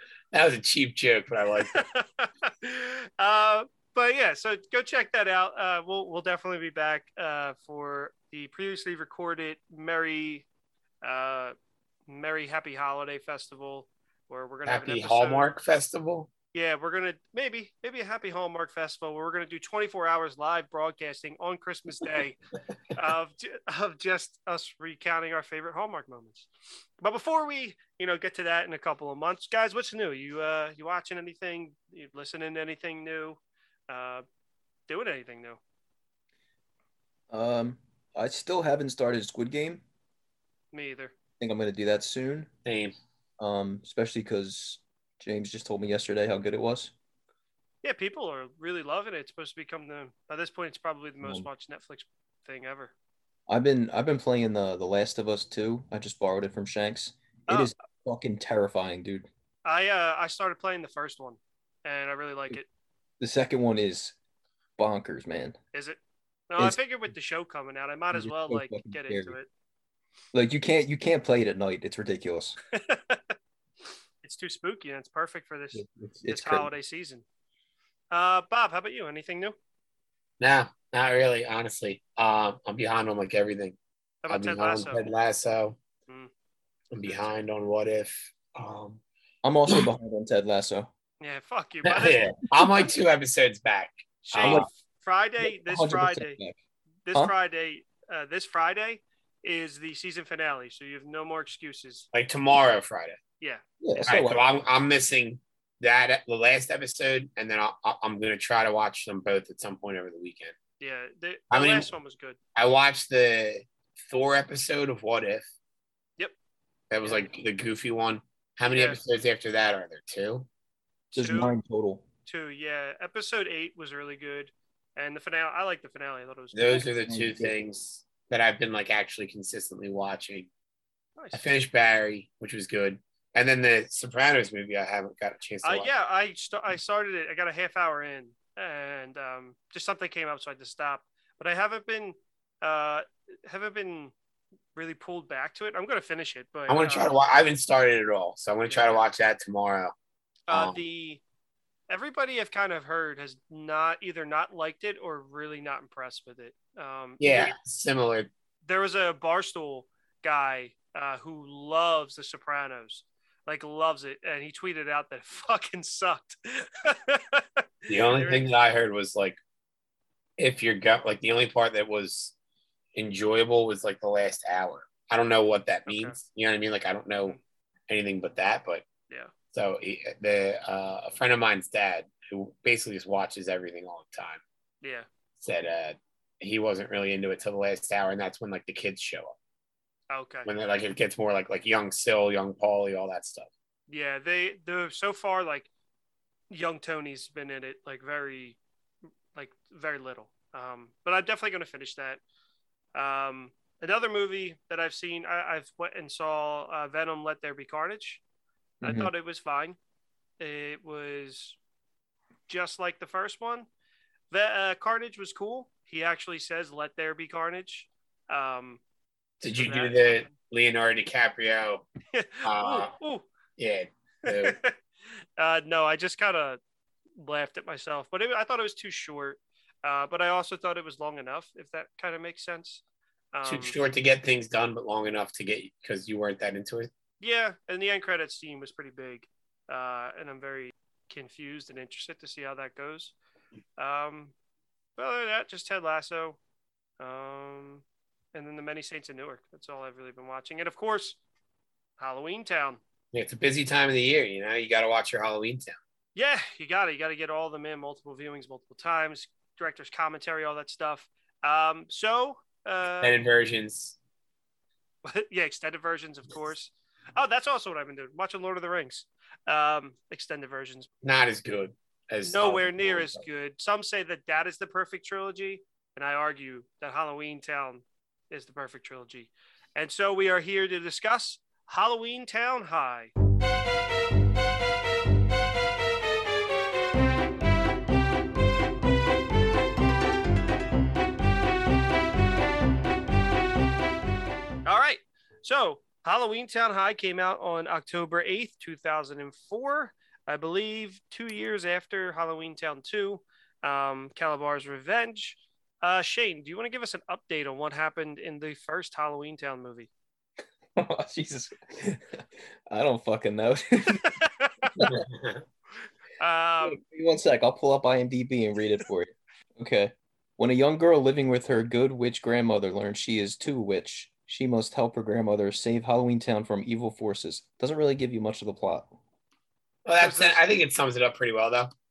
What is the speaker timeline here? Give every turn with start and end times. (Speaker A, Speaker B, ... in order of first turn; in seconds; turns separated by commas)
Speaker A: 0.3-1.8, Speaker B: 1.7-10.4, Speaker B: 11.0-11.6, Speaker B: 12.1-15.5, Speaker A: 14.7-16.3, Speaker B: 16.5-22.4, Speaker B: 22.9-26.5, Speaker B: 27.0-34.2, Speaker B: 34.9-35.6, Speaker C: 37.3-39.8, Speaker B: 40.7-41.1, Speaker C: 41.4-42.5, Speaker A: 42.7-43.0, Speaker C: 43.4-46.9, Speaker B: 47.8-52.9, Speaker C: 51.2-51.5, Speaker C: 53.5-59.3, Speaker B: 59.6-62.7, Speaker C: 63.2-64.2, Speaker C: 64.8-65.6, Speaker B: 65.7-69.5, Speaker C: 68.1-69.4, Speaker C: 70.3-72.6, Speaker B: 72.8-73.3, Speaker B: 74.2-77.2, Speaker C: 75.7-76.7, Speaker B: 78.1-79.5, Speaker A: 80.4-83.8, Speaker B: 84.2-85.1, Speaker A: 84.3-85.8, Speaker A: 86.9-89.0, Speaker B: 87.1-87.3, Speaker C: 89.4-90.9, Speaker B: 91.2-92.3, Speaker A: 91.8-94.7, Speaker B: 94.2-96.4, Speaker C: 94.4-94.7, Speaker C: 95.4-96.6, Speaker B: 97.0-102.1, Speaker A: 102.1-103.2, Speaker C: 103.8-104.4, Speaker A: 104.1-110.5, Speaker B: 110.8-112.4, Speaker A: 111.5-111.9, Speaker A: 112.6-115.5, Speaker A: 116.9-120.5, Speaker B: 117.0-117.3, Speaker B: 118.7-119.0, Speaker B: 121.1-121.5, Speaker C: 121.1-122.0, Speaker B: 122.3-126.8, Speaker A: 126.5-130.5, Speaker C: 127.1-127.5, Speaker B: 131.2-131.5, Speaker A: 131.3-135.9, Speaker B: 135.6-144.1, Speaker B: 144.8-147.1, Speaker A: 146.7-149.9, Speaker B: 148.7-149.0, Speaker B: 150.5-151.2, Speaker A: 150.5-150.8, Speaker B: 151.9-157.6, Speaker A: 157.2-158.3, Speaker B: 158.7-168.4, Speaker A: 167.9-169.4, Speaker A: 170.4-172.3, Speaker A: 172.9-177.4, Speaker B: 175.9-176.2, Speaker A: 177.9-178.8, Speaker A: 179.5-184.4, Speaker A: 185.4-189.3, Speaker B: 190.1-190.5, Speaker A: 190.5-193.5, Speaker B: 193.9-195.7, Speaker B: 196.5-198.6, Speaker B: 199.3-202.2, Speaker B: 202.9-208.2, Speaker C: 208.8-209.1, Speaker B: 208.8-209.8, Speaker B: 210.4-211.6, Speaker B: 212.5-213.7, Speaker B: 214.3-218.8, Speaker A: 219.4-221.9, Speaker B: 219.5-220.3, Speaker B: 222.1-223.3, Speaker A: 222.4-222.9, Speaker A: 223.6-224.6, Speaker B: 224.3-224.8, Speaker B: 225.4-226.6, Speaker B: 227.2-232.8, Speaker B: 233.3-233.8, Speaker A: 233.4-236.9, Speaker B: 237.2-243.2, Speaker B: 243.8-244.3, Speaker B: 245.0-246.4, Speaker B: 247.0-251.2, Speaker B: 252.0-252.8, Speaker A: 253.1-255.8, Speaker B: 256.1-263.1, Speaker A: 263.0-264.0, Speaker B: 265.1-270.9, Speaker A: 271.0-273.2, Speaker B: 272.2-283.1, Speaker B: 294.6-309.9, Speaker C: 310.8-314.2, Speaker B: 314.0-314.7, Speaker A: 314.9-315.4, Speaker B: 316.2-316.8, Speaker C: 316.6-328.9, Speaker A: 329.9-331.7, Speaker B: 330.0-330.4